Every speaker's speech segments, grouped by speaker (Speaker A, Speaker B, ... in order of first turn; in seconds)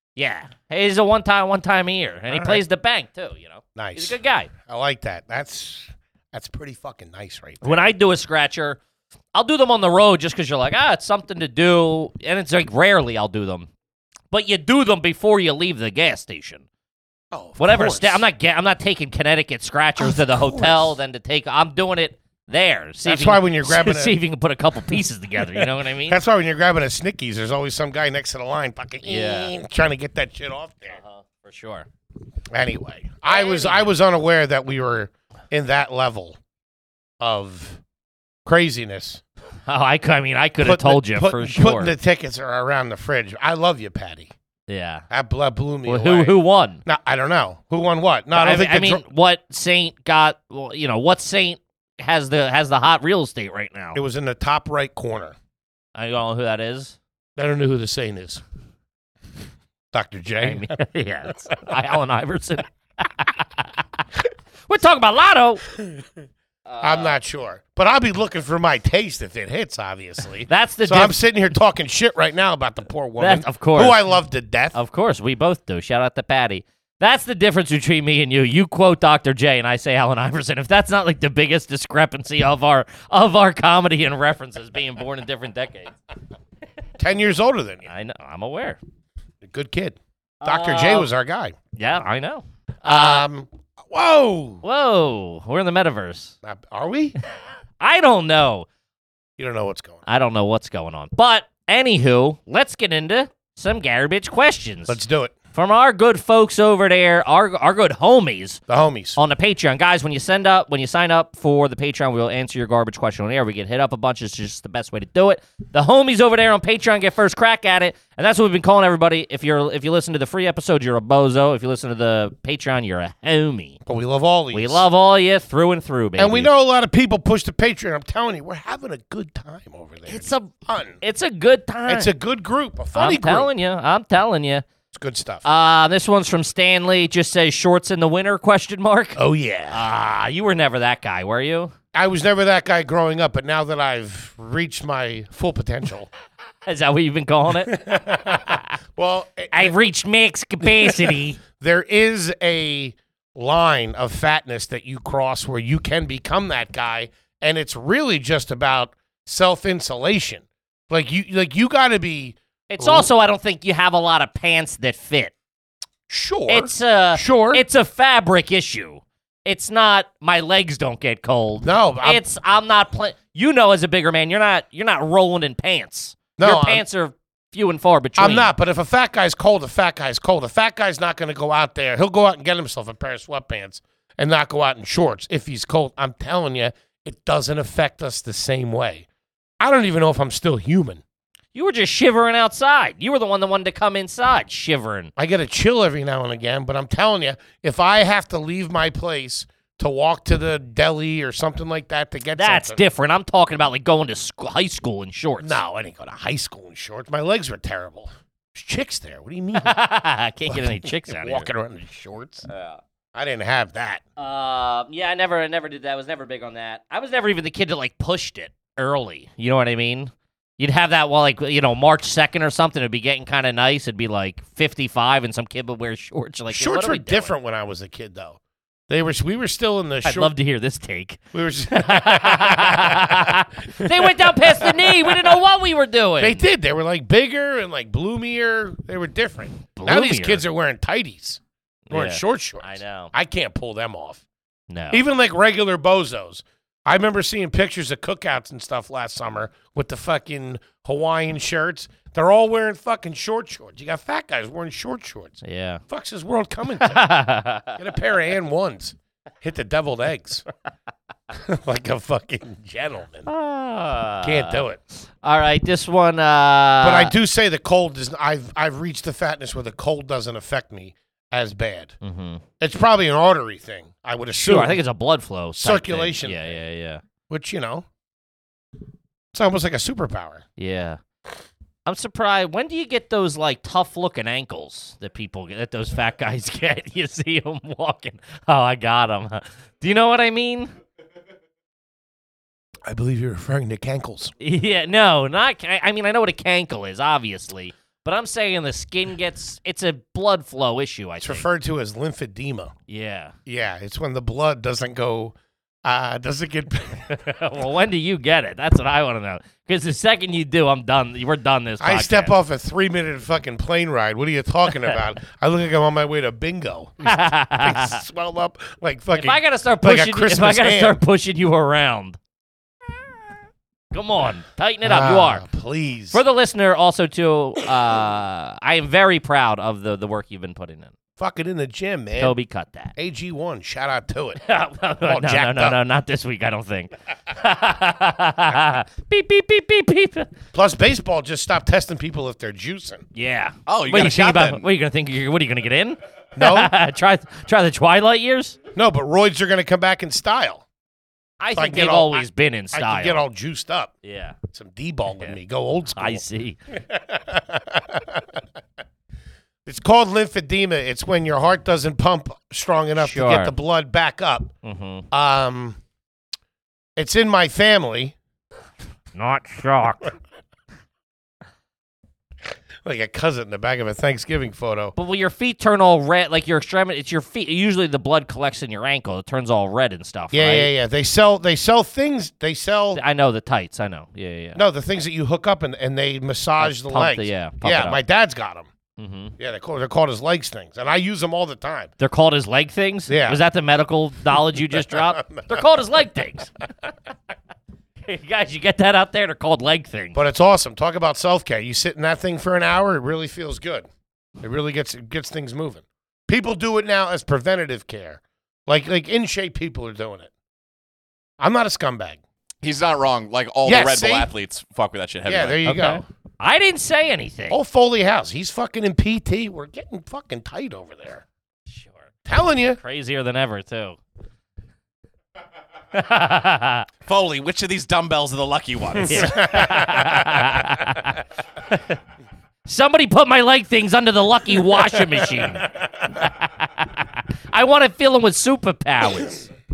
Speaker A: 0.1-4.5, 7.6-8.8, 9.3-13.7, 14.3-16.6, 17.6-26.2, 29.0-29.5, 30.9-31.9, 33.3-33.9, 39.7-41.9, 44.7-45.0, 45.9-46.8, 48.3-54.0, 55.9-57.0, 60.4-64.0, 64.7-65.6, 66.7-67.2, 70.5-71.1, 73.2-74.2, 74.7-85.9, 87.9-88.8, 90.4-91.1, 91.8-93.2, 94.6-96.3, 97.8-98.7, 100.1-105.0, 105.5-108.6, 109.2-123.8, 124.5-126.5, 130.1-132.1, 132.9-134.6, 135.4-139.2, 139.7-141.7, 146.7-148.6, 149.5-151.4, 162.7-165.3, 166.5-178.5, 191.5-195.1, 202.3-205.6, 209.6-211.5, 212.5-212.8, 214.2-227.3, 230.0-236.4, 239.7-240.4, 241.9-243.1, 244.7-245.0, 255.4-255.8, 256.8-257.8, 263.2-264.6, 265.2-267.1, 272.0-272.4, 274.4-277.0, 280.6-281.0, 281.9-290.7, 294.4-301.4, 302.9-303.3, 307.1-312.3, 317.0-318.0, 319.2-322.2, 323.9-325.4, 326.1-330.9, 332.2-332.9, 334.4-340.3, 343.1-348.6, 351.4-353.2, 354.0-354.4, 356.0-356.6, 363.0-363.5, 364.6-365.1, 369.1-370.1, 374.9-380.7, 382.9-384.6, 386.6-388.0, 389.0-389.3, 392.0-396.5, 398.1-400.1, 415.6-417.6, 421.7-422.0, 422.8-424.0, 425.9-426.9, 429.0-432.0, 432.6-439.5
Speaker B: 2.3-2.6, 3.8-7.9, 17.3-18.2, 20.0-21.0, 23.1-24.1, 25.5-31.0, 32.5-36.4, 37.2-37.8, 38.4-39.2, 40.6-44.3, 45.1-49.0, 53.9-55.3, 57.4-58.4, 59.9-60.7, 66.8-74.8, 87.0-87.9, 89.4-91.5, 92.8-94.6, 96.4-97.2, 99.4-100.0, 104.9-105.3, 108.7-109.2, 123.8-124.8, 126.2-131.0, 131.9-133.5, 134.9-135.4, 139.2-139.8, 141.9-146.1, 147.7-149.8, 150.6-163.1, 166.1-167.6, 171.6-172.2, 176.4-176.8, 178.2-189.1, 189.6-191.0, 195.2-202.8, 205.4-209.7, 210.5-212.5, 213.1-214.0, 226.5-228.4, 228.9-230.3, 231.3-235.4, 236.2-241.4, 241.9-244.2, 244.9-257.0, 257.8-260.4, 261.3-263.3, 264.2-264.8, 266.8-271.9, 272.6-274.8, 275.6-276.5, 277.3-277.8, 279.3-280.4, 292.9-294.3, 301.2-302.7, 303.4-307.1, 311.8-321.0, 324.8-326.2, 331.2-332.3, 332.9-334.4, 335.0-335.8, 340.5-343.0, 346.4-346.7, 348.7-350.6, 351.5-353.9, 354.5-358.2, 359.6-364.5, 365.1-365.8, 366.9-368.1, 372.8-374.9, 380.3-383.0, 384.6-388.7, 389.4-391.9, 393.1-393.4, 394.8-395.6, 400.1-403.9, 404.4-410.3, 411.4-412.2, 413.6-414.3, 415.2-416.0, 417.5-421.2, 422.3-422.8, 429.1-430.3
Speaker C: 343.7-344.6, 412.6-415.6, 427.1-429.4